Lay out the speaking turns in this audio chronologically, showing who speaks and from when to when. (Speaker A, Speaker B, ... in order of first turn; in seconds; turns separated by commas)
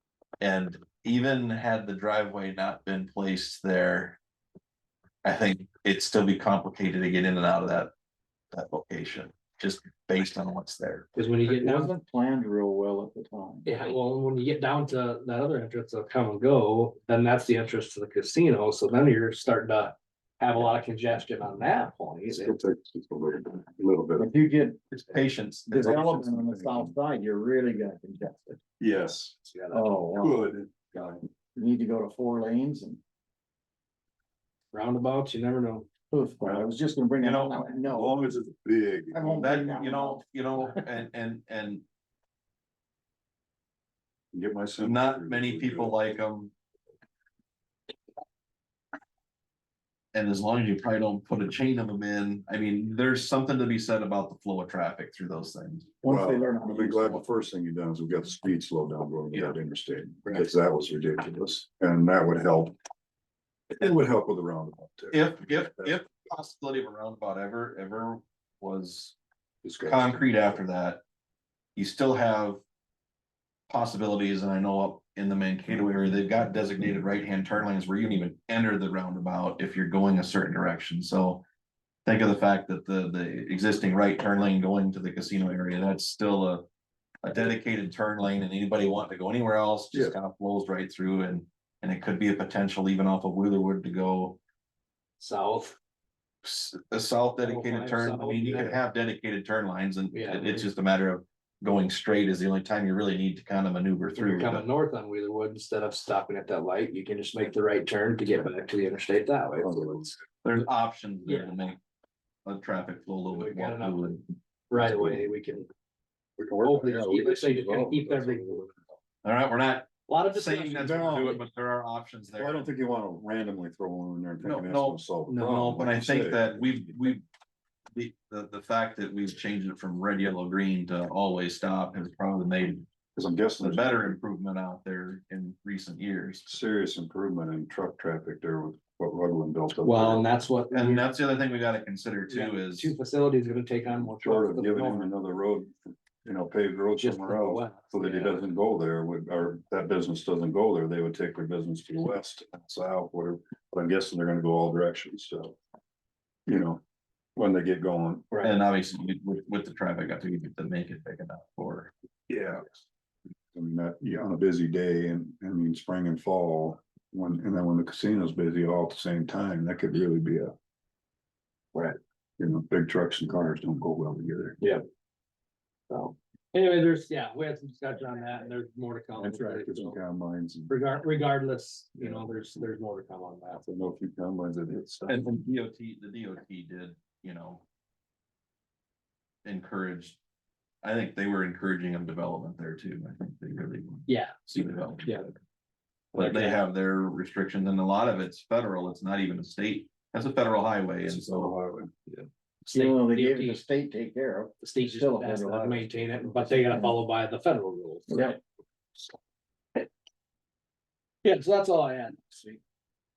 Speaker A: 0.4-4.2, Speaker A: 5.2-7.9, Speaker A: 8.5-11.1, Speaker B: 11.1-11.9, Speaker C: 11.4-13.7, Speaker B: 13.6-22.5, Speaker D: 22.3-24.3, Speaker C: 24.2-24.8, Speaker A: 24.9-26.4, Speaker C: 25.7-28.6, Speaker D: 26.2-26.9, Speaker D: 28.8-31.2, Speaker C: 29.7-30.5, Speaker C: 31.5-33.0, Speaker B: 34.7-35.9, Speaker C: 36.1-38.1, Speaker A: 37.2-37.7, Speaker D: 37.9-39.5, Speaker C: 39.1-40.2, Speaker A: 39.4-41.8, Speaker D: 44.3-46.0, Speaker A: 44.8-46.5, Speaker A: 50.1-55.9, Speaker C: 56.0-57.2, Speaker D: 56.0-62.8, Speaker D: 63.7-66.0, Speaker A: 65.1-69.2, Speaker D: 69.6-70.3, Speaker A: 69.8-71.0, Speaker A: 71.8-72.6, Speaker A: 73.7-81.4, Speaker A: 82.0-86.7, Speaker A: 87.2-94.4, Speaker D: 89.9-90.2, Speaker B: 95.2-95.8, Speaker A: 96.4-104.7, Speaker B: 97.4-98.8, Speaker B: 100.1-100.7, Speaker B: 104.2-110.1, Speaker D: 109.6-110.2, Speaker A: 110.4-111.8, Speaker B: 111.2-111.6, Speaker A: 112.4-114.2, Speaker B: 113.3-115.7, Speaker D: 114.7-115.3, Speaker D: 116.4-118.6, Speaker B: 116.6-118.9, Speaker A: 119.2-122.7, Speaker B: 120.1-121.4, Speaker D: 120.8-121.2, Speaker D: 122.3-127.0, Speaker A: 124.4-127.2, Speaker B: 125.3-125.6, Speaker A: 127.9-132.9, Speaker D: 133.1-134.2, Speaker A: 133.6-136.5, Speaker D: 136.4-140.3, Speaker B: 139.8-141.1, Speaker A: 140.7-142.9, Speaker B: 142.3-145.1, Speaker D: 144.2-155.6, Speaker B: 147.0-148.5, Speaker D: 156.4-156.8, Speaker D: 157.3-158.3, Speaker B: 158.3-158.6, Speaker A: 158.4-161.9, Speaker D: 162.3-162.8, Speaker D: 163.5-170.5, Speaker D: 172.4-174.6, Speaker B: 175.9-180.0, Speaker D: 179.1-180.8, Speaker B: 180.7-183.6, Speaker D: 182.0-182.3, Speaker D: 183.6-185.3, Speaker A: 185.1-187.6, Speaker A: 189.4-190.2, Speaker A: 190.8-195.3, Speaker B: 194.1-194.5, Speaker B: 195.0-195.3, Speaker A: 196.1-201.5, Speaker B: 196.1-196.6, Speaker D: 201.1-202.1, Speaker B: 202.7-203.6, Speaker C: 202.7-207.0, Speaker B: 204.6-208.4, Speaker C: 208.1-208.4, Speaker B: 211.2-212.6